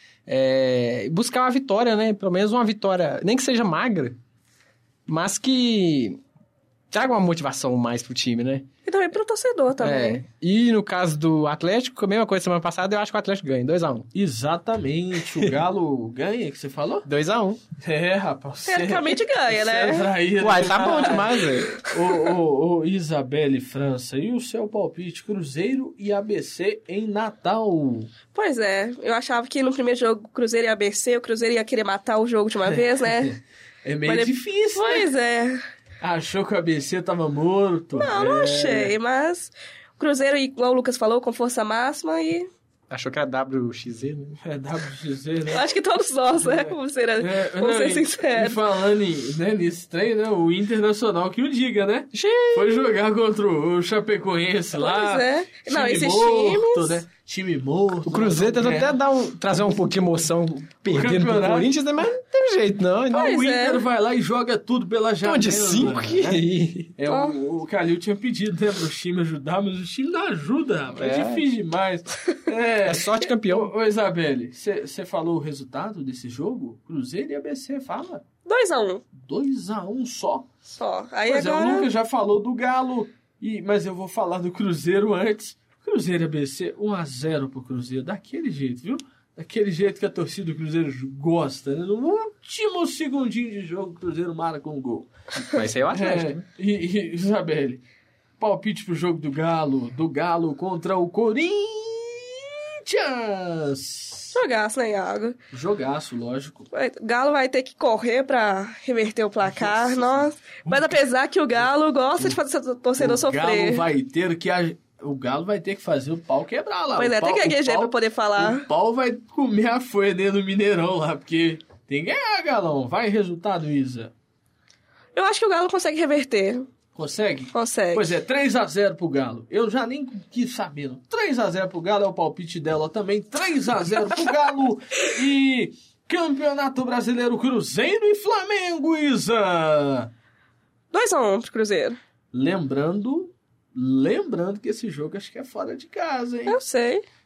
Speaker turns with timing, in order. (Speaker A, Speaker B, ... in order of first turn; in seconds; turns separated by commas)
Speaker A: 0.2-4.2, Speaker A: 5.1-6.2, Speaker A: 6.9-8.7, Speaker B: 8.8-10.2, Speaker A: 9.8-14.1, Speaker C: 14.1-17.1, Speaker A: 17.1-17.6, Speaker C: 17.8-28.1, Speaker B: 18.7-20.1, Speaker A: 20.4-21.8, Speaker B: 20.8-21.1, Speaker B: 28.3-33.3, Speaker C: 32.7-35.1, Speaker B: 34.0-35.6, Speaker C: 36.0-38.9, Speaker B: 38.0-42.5, Speaker A: 42.9-44.4, Speaker C: 44.4-45.7, Speaker B: 45.5-48.6, Speaker C: 46.3-59.0, Speaker A: 52.1-52.7, Speaker B: 54.8-57.0, Speaker A: 58.0-63.3, Speaker C: 60.9-61.7, Speaker C: 63.1-66.4, Speaker B: 63.1-63.8, Speaker A: 65.2-66.9, Speaker C: 67.0-78.2, Speaker B: 67.1-67.3, Speaker A: 71.0-71.4, Speaker A: 72.8-73.7, Speaker B: 78.5-79.0, Speaker C: 79.2-80.5, Speaker B: 80.8-81.9, Speaker C: 81.2-95.1, Speaker A: 95.3-96.4, Speaker C: 95.9-97.8, Speaker C: 98.4-104.4, Speaker B: 104.3-105.4, Speaker C: 105.5-106.7, Speaker B: 106.7-113.8, Speaker C: 109.4-111.0, Speaker C: 113.0-124.1, Speaker B: 117.0-118.6, Speaker B: 125.1-126.7, Speaker C: 126.9-140.1, Speaker B: 127.5-128.1, Speaker B: 140.9-142.0, Speaker C: 142.3-146.6, Speaker B: 146.5-147.0